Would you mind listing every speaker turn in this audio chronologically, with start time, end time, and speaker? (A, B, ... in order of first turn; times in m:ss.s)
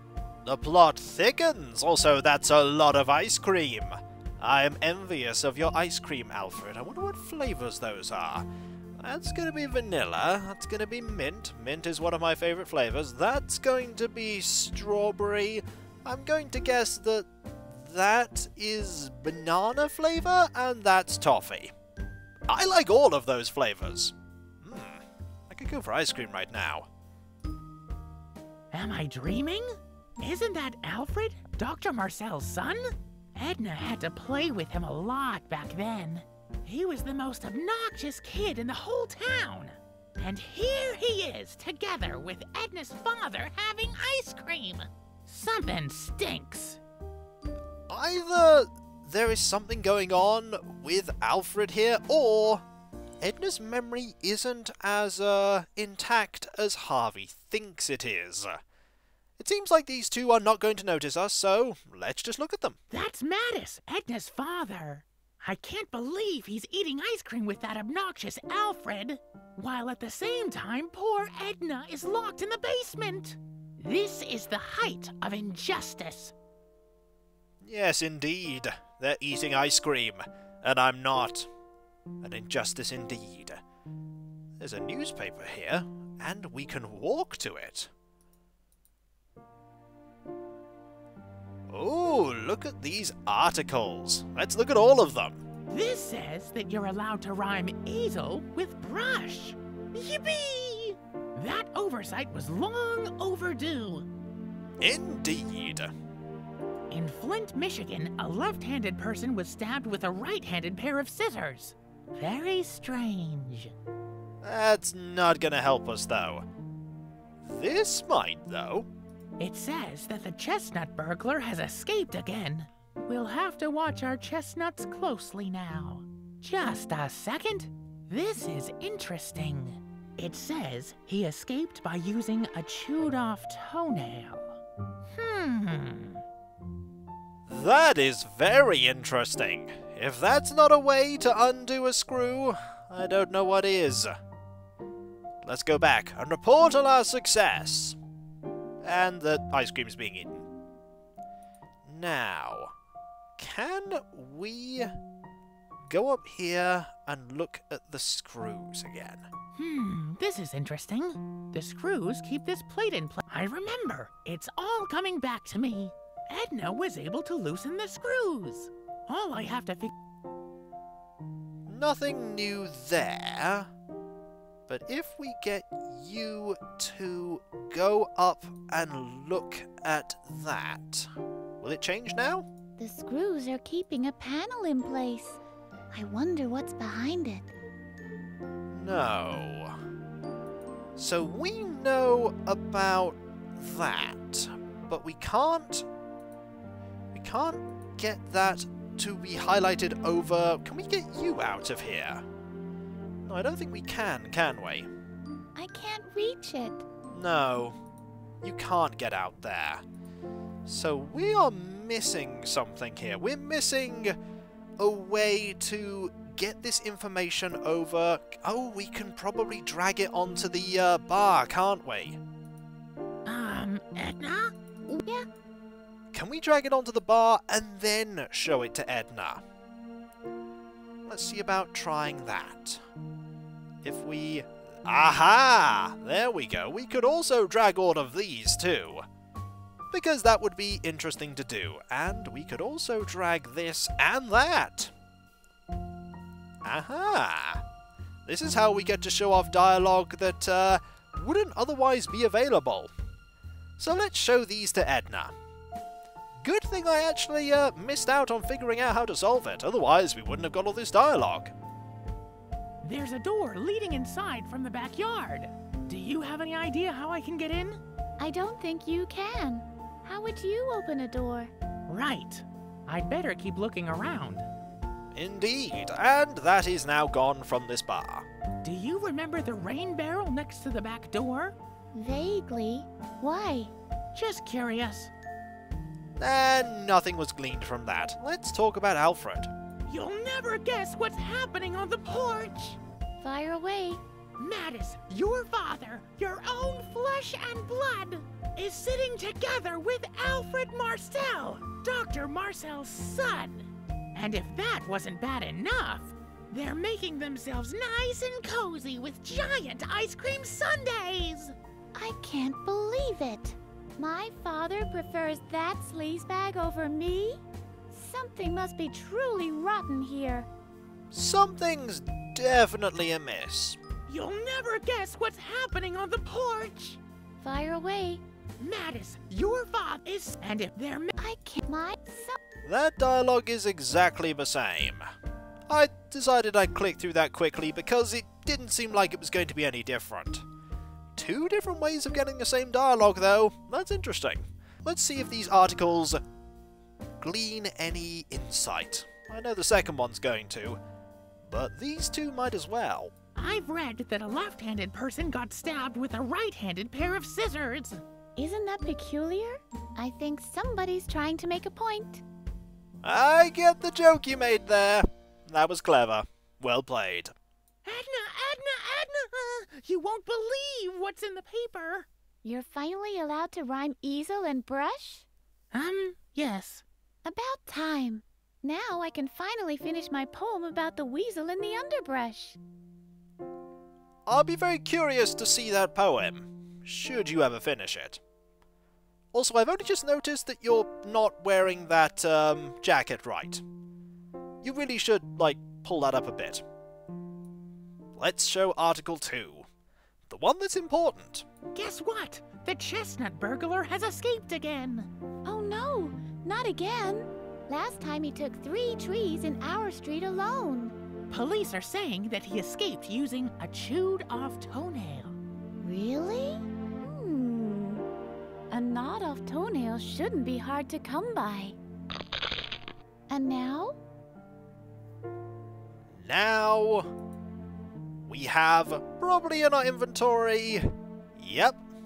0:00.4-0:08.5 A
0:09.0-0:21.7 A
0:22.5-0:26.9 A
0:28.7-0:46.8 B
0:47.9-0:52.6 A
0:53.2-0:58.6 A
0:59.4-1:02.8 A
1:02.9-1:16.3 B
1:17.6-1:21.5 A
1:22.2-1:23.6 A
1:24.6-1:27.9 A
1:31.7-1:35.4 A
1:35.7-1:44.1 B
1:44.8-1:45.9 A
1:46.9-1:53.7 B
1:54.4-1:56.5 A
1:57.4-1:58.9 A
1:59.4-2:14.6 B
2:15.1-2:16.2 B
2:17.5-2:24.1 A
2:25.4-2:28.0 A
2:28.8-2:30.5 A
2:31.8-2:32.7 A
2:33.4-2:34.9 A
2:35.9-2:39.3 A
2:39.5-2:49.9 B
2:51.6-2:53.7 A
2:54.7-3:01.1 A
3:01.6-3:02.5 A
3:02.8-3:05.4 C
3:05.9-3:07.5 C
3:08.7-3:09.8 A
3:11.0-3:15.8 A
3:17.1-3:22.2 A
3:23.2-3:24.9 A
3:25.5-3:26.8 C
3:27.1-3:27.8 A
3:28.4-3:29.8 A
3:30.6-3:34.2 A
3:34.8-3:42.2 A
3:43.2-3:45.0 B
3:46.1-3:49.4 A
3:51.0-3:52.8 A
3:53.8-3:59.0 A
3:59.9-4:04.9 A
4:06.6-4:07.6 A
4:08.2-4:12.9 A
4:13.8-4:15.3 A
4:16.4-4:21.5 A
4:22.8-4:27.8 B
4:28.2-4:31.5 C
4:31.9-4:34.5 B
4:35.1-4:38.2 A
4:38.6-4:41.6 B
4:41.9-4:43.7 C
4:44.1-4:45.1 B
4:46.2-4:49.5 A
4:49.8-4:52.8 B
4:53.2-4:54.0 C
4:54.4-5:11.6 B
5:11.9-5:20.5 C
5:21.1-5:23.8 A
5:24.1-5:27.0 B
5:27.4-5:28.2 C
5:28.6-5:31.1 B
5:31.2-5:32.4 C
5:32.6-5:35.0 A
5:35.7-5:40.4 A
5:41.2-5:46.2 A
5:47.2-5:50.8 A
5:51.4-5:53.1 A
5:53.3-5:58.0 B
5:58.4-6:02.2 C
6:03.0-6:07.3 A
6:07.8-6:12.1 B
6:12.4-6:15.2 C
6:15.7-6:16.8 B
6:17.2-6:22.6 C
6:24.2-6:28.2 A
6:29.3-6:33.6 A
6:34.6-6:36.6 A
6:38.2-6:39.7 A
6:40.3-6:41.4 A
6:41.7-6:45.1 B
6:45.4-6:50.9 C
6:51.3-6:55.4 B
6:55.8-6:58.0 C
6:58.7-7:01.8 C
7:03.3-7:04.0 C
7:06.1-7:07.1 A
7:08.2-7:11.8 A